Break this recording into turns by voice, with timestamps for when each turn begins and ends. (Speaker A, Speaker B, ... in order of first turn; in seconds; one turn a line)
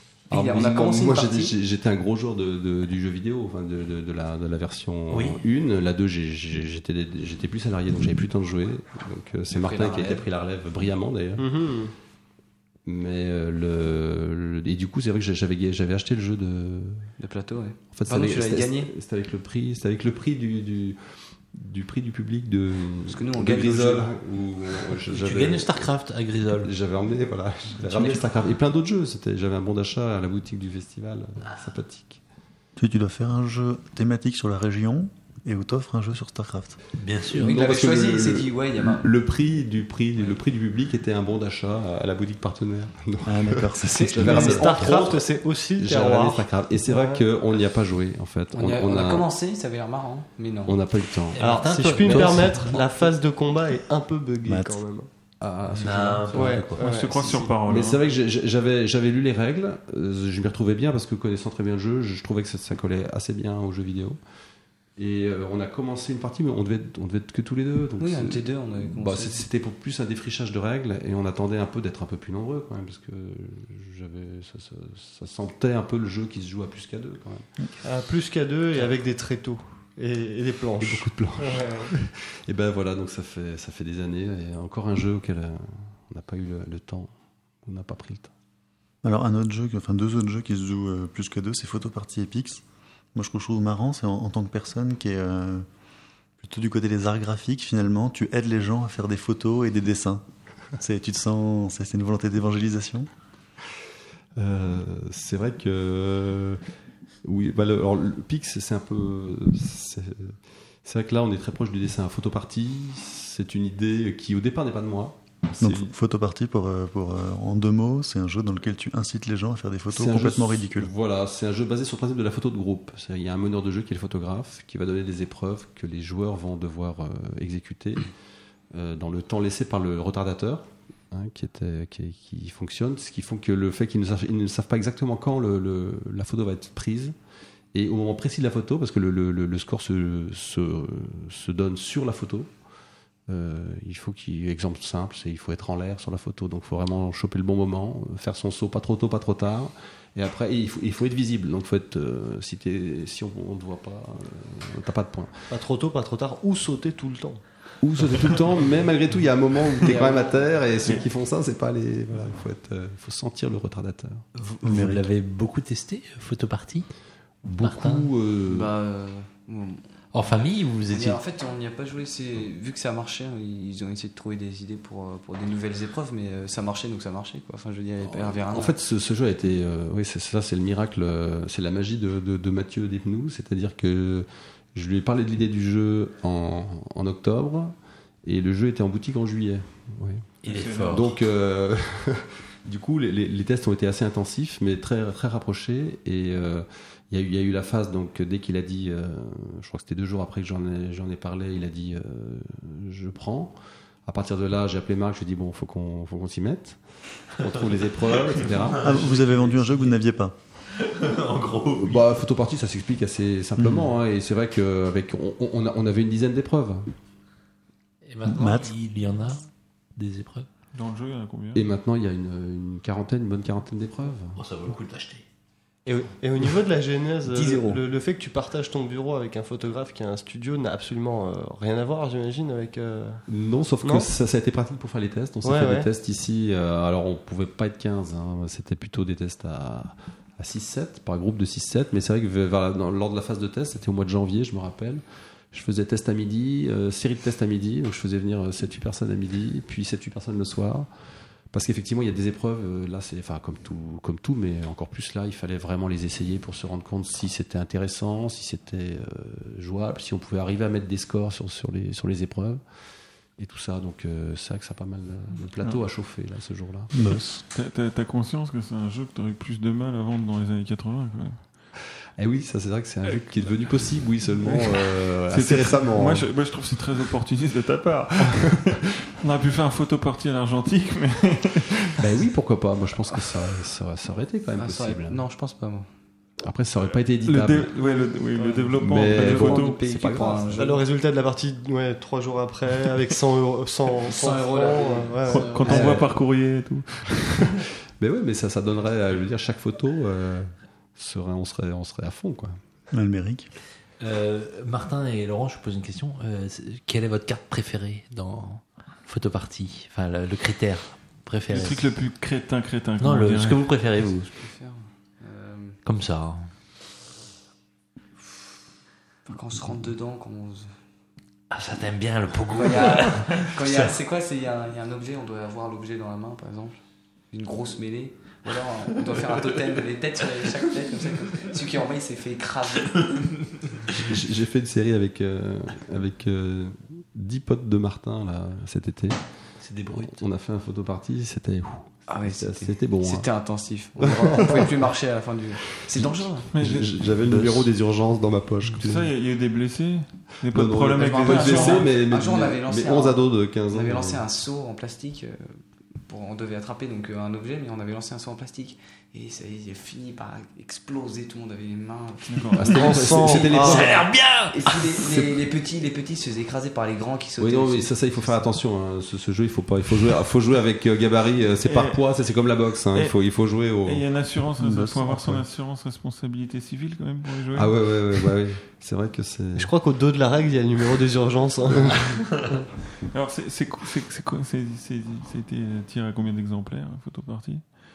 Speaker A: 0.3-1.5
Speaker B: 0.3-11.5
Speaker C: 5.1-5.4
Speaker A: 9.5-10.2
Speaker D: 11.4-11.9
Speaker B: 12.8-17.1
Speaker A: 17.2-18.9
Speaker B: 17.9-25.9
Speaker A: 23.1-24.1
Speaker C: 25.1-26.7
Speaker B: 26.5-32.2
Speaker C: 27.9-28.2
Speaker E: 32.8-36.8
Speaker C: 37.0-37.6
Speaker B: 37.4-49.3
Speaker A: 37.4-39.1
Speaker E: 43.3-44.9
Speaker D: 43.9-47.2
Speaker A: 48.5-50.8
Speaker B: 50.7-52.5
Speaker C: 51.3-53.1
Speaker D: 51.4-55.1
Speaker E: 54.5-54.8
Speaker B: 55.4-56.8
Speaker C: 55.7-56.8
Speaker D: 56.3-57.6
Speaker F: 56.8-58.1
Speaker B: 57.6-64.2
Speaker B: 65.0-77.5
Speaker A: 68.0-69.4
Speaker D: 77.8-81.9
Speaker B: 80.8-87.1
Speaker B: 87.6-88.3
Speaker E: 89.0-92.6
Speaker E: 93.2-95.7
Speaker E: 96.4-100.2
Speaker E: 100.8-103.1
Speaker B: 104.4-106.6
Speaker B: 107.2-115.9
Speaker E: 115.6-120.9
Speaker B: 119.9-128.1
Speaker B: 128.7-137.2
Speaker B: 137.7-142.5
Speaker B: 143.3-155.5
Speaker D: 155.5-157.4
Speaker B: 157.8-164.2
Speaker A: 159.8-160.6
Speaker C: 164.4-166.9
Speaker E: 164.6-165.1
Speaker B: 167.4-168.7
Speaker C: 167.6-168.1
Speaker A: 168.5-169.8
Speaker C: 170.1-171.2
Speaker A: 170.9-178.8
Speaker B: 178.0-190.3
Speaker C: 190.4-191.1
Speaker F: 190.5-191.1
Speaker B: 190.9-206.8
Speaker B: 207.4-209.2
Speaker C: 207.6-210.0
Speaker E: 208.8-210.3
Speaker C: 210.8-212.0
Speaker B: 211.7-216.9
Speaker E: 213.6-213.9
Speaker C: 218.1-220.5
Speaker E: 218.3-218.7
Speaker F: 220.7-221.6
Speaker B: 221.5-224.4
Speaker C: 224.4-225.2
Speaker D: 225.9-233.2
Speaker A: 227.3-227.8
Speaker B: 233.3-250.9
Speaker D: 233.8-234.1
Speaker D: 235.4-235.9
Speaker B: 251.5-262.6
Speaker B: 263.4-266.9
Speaker E: 266.9-267.4
Speaker F: 267.5-271.4
Speaker B: 272.2-276.3
Speaker F: 274.4-282.1
Speaker B: 282.0-285.2
Speaker A: 284.6-285.9
Speaker B: 286.4-287.7
Speaker F: 287.2-289.8
Speaker A: 287.8-290.8
Speaker B: 288.8-290.5
Speaker D: 290.6-295.8
Speaker A: 294.0-295.8
Speaker F: 295.3-297.6
Speaker C: 295.6-296.1
Speaker B: 295.7-296.0
Speaker B: 298.0-302.6
Speaker E: 302.9-303.5
Speaker C: 304.0-311.9
Speaker F: 311.5-313.7
Speaker C: 313.0-314.3
Speaker A: 314.3-315.8
Speaker C: 315.9-316.5
Speaker A: 319.3-320.8
Speaker C: 321.5-323.9
Speaker A: 322.5-326.8
Speaker A: 327.3-333.4
Speaker B: 333.9-339.2
Speaker C: 339.6-340.2
Speaker B: 339.9-343.3
Speaker A: 342.1-346.5
Speaker B: 344.0-344.7
Speaker B: 345.9-349.1
Speaker F: 346.5-347.2
Speaker F: 348.6-351.9
Speaker B: 350.5-354.2
Speaker A: 350.9-363.9
Speaker F: 362.2-362.7
Speaker B: 362.6-364.1
Speaker D: 362.7-363.9
Speaker C: 363.5-364.9
Speaker A: 364.5-368.4
Speaker B: 365.0-365.4
Speaker B: 367.4-374.1
Speaker F: 371.6-372.0
Speaker F: 373.9-378.3
Speaker E: 374.6-375.4
Speaker B: 377.5-379.7
Speaker D: 379.6-382.3
Speaker F: 383.1-387.6